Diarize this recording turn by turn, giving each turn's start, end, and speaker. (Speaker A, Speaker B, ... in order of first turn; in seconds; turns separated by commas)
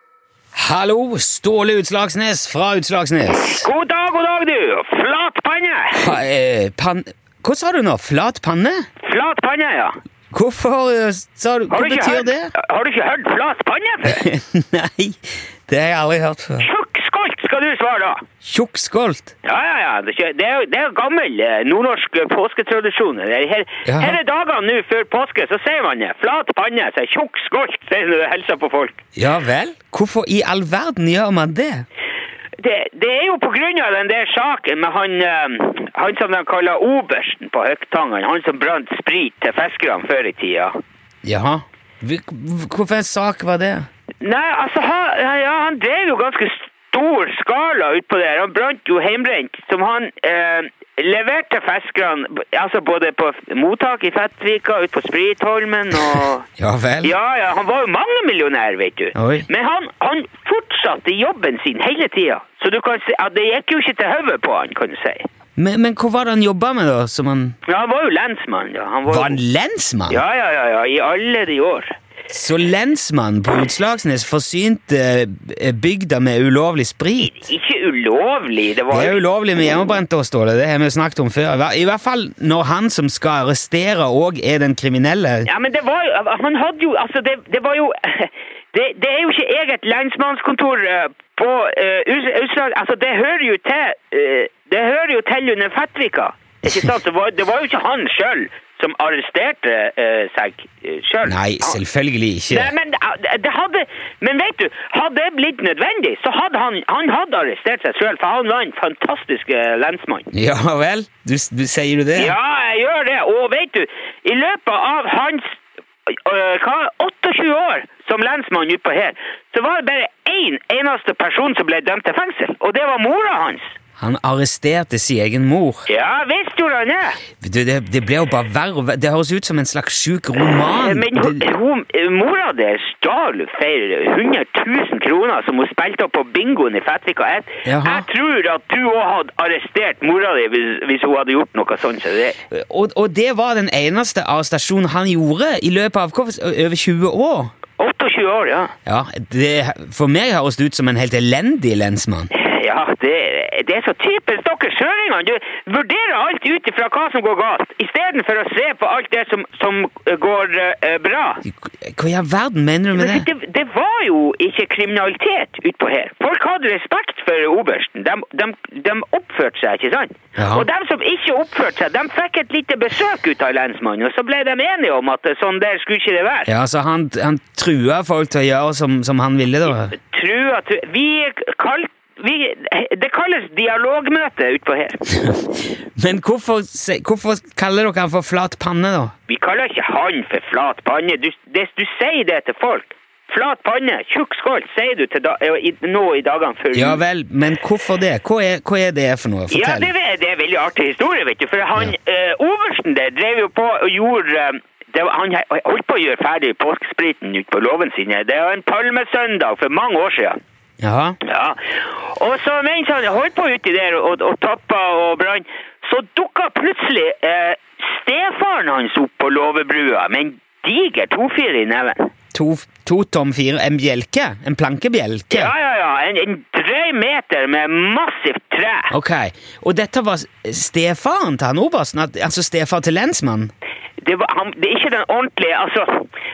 Speaker A: 0.6-3.7, Speaker B: 3.4-6.1, Speaker A: 5.9-8.9, Speaker B: 9.0-10.0, Speaker A: 10.3-12.5, Speaker B: 11.7-14.2, Speaker A: 14.0-16.7, Speaker B: 16.6-18.3, Speaker A: 18.4-19.3, Speaker B: 19.4-29.0, Speaker A: 23.8-24.2, Speaker A: 29.2-31.8, Speaker B: 32.6-40.8, Speaker A: 41.2-43.9, Speaker B: 44.2-56.5, Speaker A: 56.6-57.1, Speaker B: 57.0-65.2, Speaker A: 59.1-59.5, Speaker A: 65.6-67.5, Speaker B: 67.7-69.4, Speaker A: 69.1-70.2, Speaker B: 70.1-71.9, Speaker A: 72.3-77.5, Speaker B: 77.2-79.2, Speaker A: 78.9-85.5, Speaker B: 85.5-101.8, Speaker A: 101.2-102.7, Speaker B: 102.5-110.3, Speaker A: 110.3-112.4, Speaker B: 112.1-123.6, Speaker A: 124.0-125.9, Speaker B: 125.9-127.2, Speaker A: 127.4-131.5, Speaker B: 130.8-142.4, Speaker A: 137.6-138.0, Speaker A: 142.5-147.5, Speaker B: 147.8-148.7, Speaker A: 148.8-152.3, Speaker B: 152.3-161.4, Speaker A: 161.5-163.3, Speaker B: 162.9-176.5, Speaker A: 170.3-170.7, Speaker A: 176.4-179.9, Speaker B: 179.7-185.1, Speaker A: 185.1-185.4, Speaker A: 186.0-189.1, Speaker B: 189.3-197.0, Speaker A: 196.7-199.9, Speaker B: 199.5-210.4, Speaker A: 210.8-211.2, Speaker B: 211.2-222.1, Speaker A: 222.3-225.5, Speaker B: 225.3-228.9, Speaker A: 228.9-233.5, Speaker B: 234.0-236.1